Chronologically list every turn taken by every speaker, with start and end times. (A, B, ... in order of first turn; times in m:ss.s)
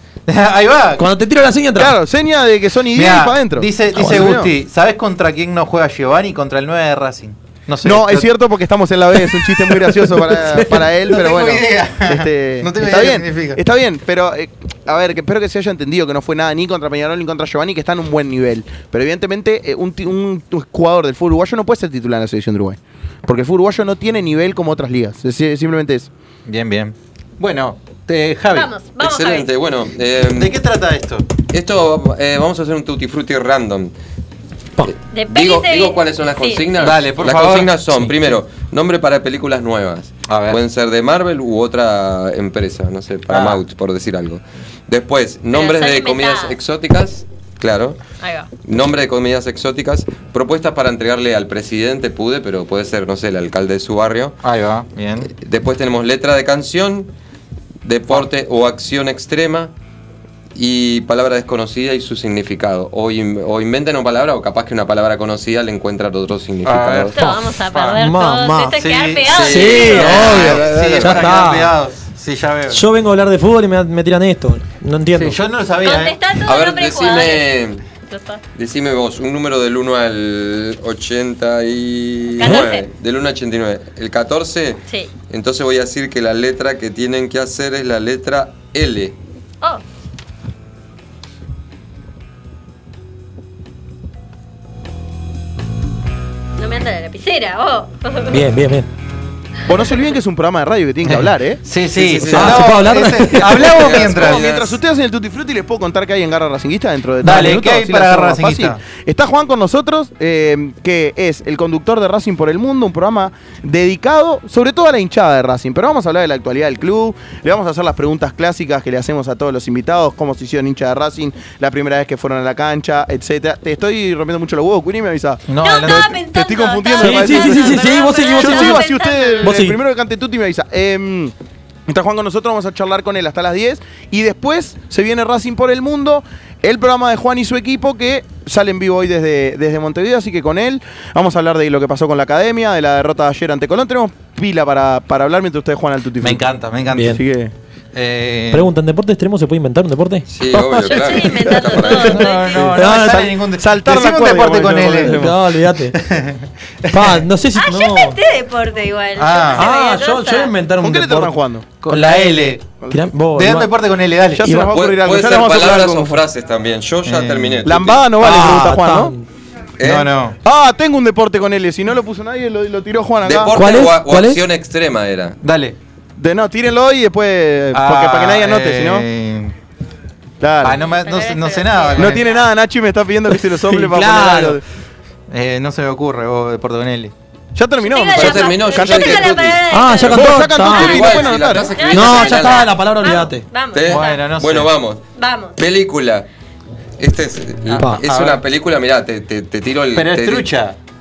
0:00.3-0:01.1 A
0:01.0-0:01.9 B
0:01.7-0:04.5 C
0:02.9-0:08.3 A
0:04.0-0:04.4 B
0:07.8-0:26.1 C
0:11.0-0:13.6 A
0:26.5-0:28.7 A
0:28.5-0:29.5 D
0:29.0-0:30.5 E
0:30.3-0:31.2 A
0:31.5-0:33.9 E
0:34.8-0:48.0 E
0:35.1-0:36.7 D
0:36.8-0:37.8 A
0:40.3-0:40.6 A
0:43.3-0:43.6 A
0:45.5-0:46.6 D
0:48.2-0:48.5 D
0:48.6-0:54.3 E
0:54.4-0:55.3 A
0:55.2-0:57.1 E
0:57.8-0:59.7 E
1:00.5-1:07.1 E
1:06.6-1:07.2 A
1:07.2-1:10.2 D
1:07.2-1:08.8 B
1:07.7-1:08.0 A
1:08.8-1:12.8 A
1:09.3-1:11.3 E
1:09.4-1:11.8 B
1:12.7-1:15.4 B
1:15.1-1:16.2 A
1:15.8-1:17.5 D
1:16.4-1:17.8 E
1:18.1-1:18.4 D
1:18.6-1:29.2 E
1:22.4-1:22.8 D
1:22.4-1:22.7 A
1:36.6-1:38.4 D
1:38.3-1:38.9 B
1:39.6-1:41.6 C
1:41.0-1:44.7 A
1:41.9-1:42.7 E
1:42.3-1:43.9 B
1:43.6-2:11.3 C
1:43.7-1:44.5 E
1:47.2-1:47.7 B
1:47.2-1:48.8 A
2:05.5-2:06.2 A
2:05.6-2:09.6 D
2:07.0-2:08.9 B
2:09.4-2:09.8 B
2:11.9-2:27.5 C
2:26.2-2:27.1 A
2:26.9-2:27.2 B
2:27.9-2:28.7 A
2:28.5-2:30.3 B
2:30.3-2:32.2 E
2:30.5-2:31.1 A
2:30.9-2:32.7 D
2:31.5-2:35.4 C
2:31.9-2:35.3 A
2:32.7-2:33.3 B
2:35.0-2:36.0 B
2:35.9-2:37.2 A
2:36.9-2:38.2 B
2:37.6-2:40.5 D
2:39.2-2:39.6 A
2:39.5-2:41.4 B
2:40.8-2:41.8 C
2:41.8-2:42.6 A
2:41.9-2:43.7 B
2:43.4-2:44.4 A
2:44.3-2:46.2 C
2:44.4-2:44.7 B
2:44.7-2:48.1 E
2:47.0-2:47.6 A
2:47.6-2:49.1 C
2:48.2-2:49.2 B
2:49.8-2:50.1 E
2:49.8-2:50.4 A
2:50.4-2:53.6 C
2:53.2-2:55.4 E
2:53.5-2:54.4 B
2:55.4-2:55.8 A
2:56.2-2:59.0 C
2:57.7-2:59.5 A
3:00.4-3:00.8 C
3:00.6-3:02.3 A
3:00.7-3:02.5 D
3:02.0-3:04.6 C
3:03.6-3:04.6 B
3:05.3-3:07.1 A
3:07.5-3:09.4 C
3:07.8-3:14.2 D
3:08.1-3:09.6 E
3:09.7-3:11.1 B
3:10.0-3:11.8 C
3:10.7-3:12.7 E
3:11.9-3:13.4 B
3:13.7-3:15.0 E
3:13.9-3:14.7 A
3:15.2-3:15.6 D
3:15.6-3:16.3 E
3:17.0-3:20.5 E
3:17.7-3:18.0 B
3:18.0-3:18.4 A
3:19.9-3:20.8 A